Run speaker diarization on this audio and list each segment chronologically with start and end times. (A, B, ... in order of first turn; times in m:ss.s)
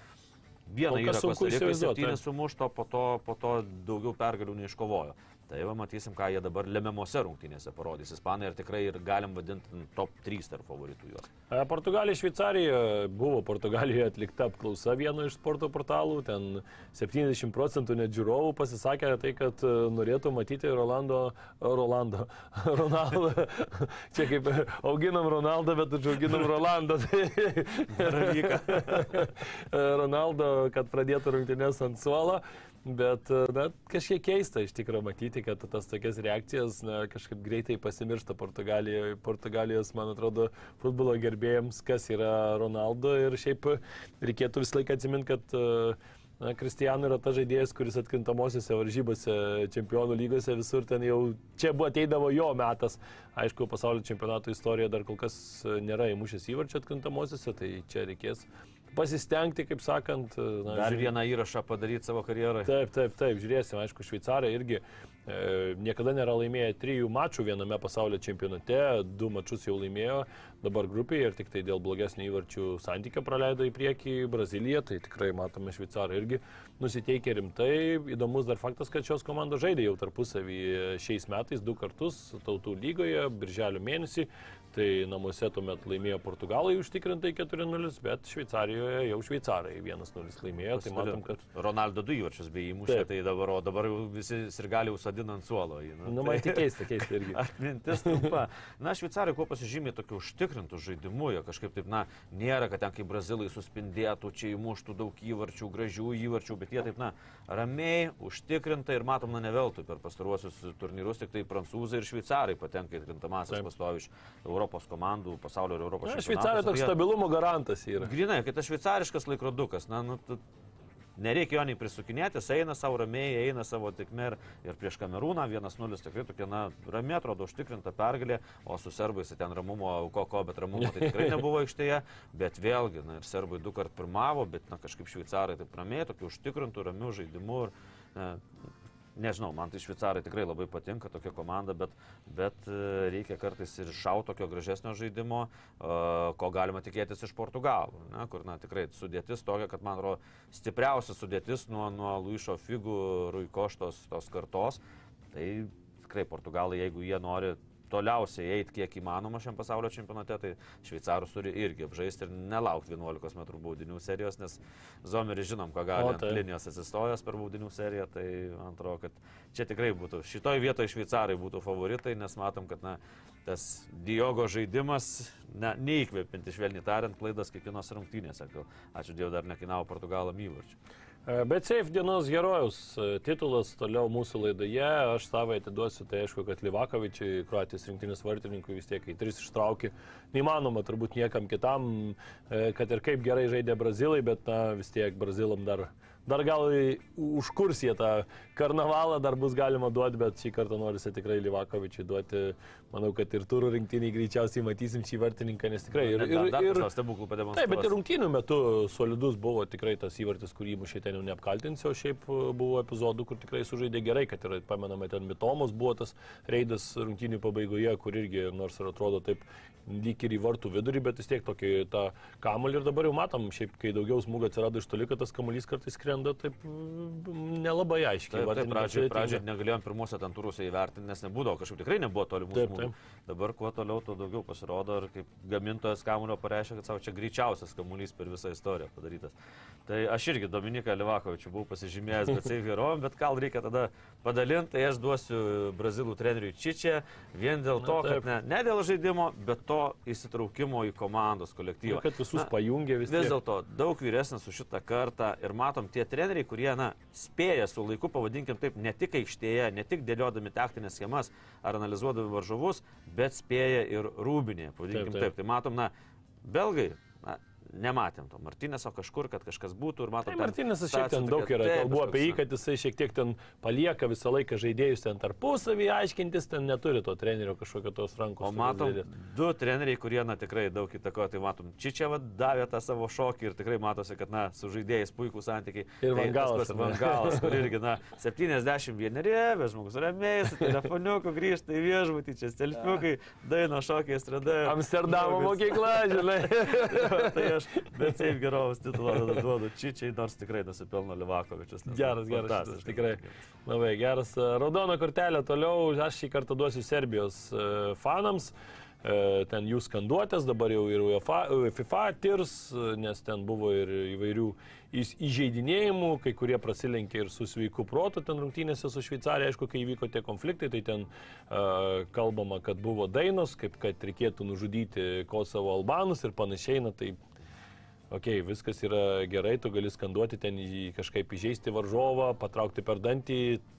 0:00.7-0:11.3 A
0:00.9-0:02.2 B
0:11.5-1:01.1 B
0:27.9-0:29.2 A
1:00.7-1:02.7 A
1:02.6-1:31.4 B
1:30.7-1:36.6 A
1:36.0-1:37.4 B
1:37.3-1:56.9 A
1:56.0-1:58.1 B
1:58.0-2:00.4 A
2:01.2-2:18.4 A
2:11.0-2:11.3 B
2:19.2-2:34.8 A
2:35.3-3:00.8 A
2:46.0-2:46.4 B
3:01.2-3:26.9 B
3:26.0-3:27.9 A
3:27.5-3:49.4 B
3:48.3-3:59.3 A
3:52.5-3:52.9 B
3:59.9-4:12.5 A
4:07.8-4:08.2 B
4:11.8-4:13.4 B
4:13.1-4:25.9 A
4:24.9-4:25.3 B
4:26.4-4:32.4 A
4:30.2-4:39.0 B
4:38.4-5:03.3 A
4:46.0-4:47.6 B
4:54.6-4:58.2 B
5:01.9-5:27.2 B
5:28.1-5:33.6 B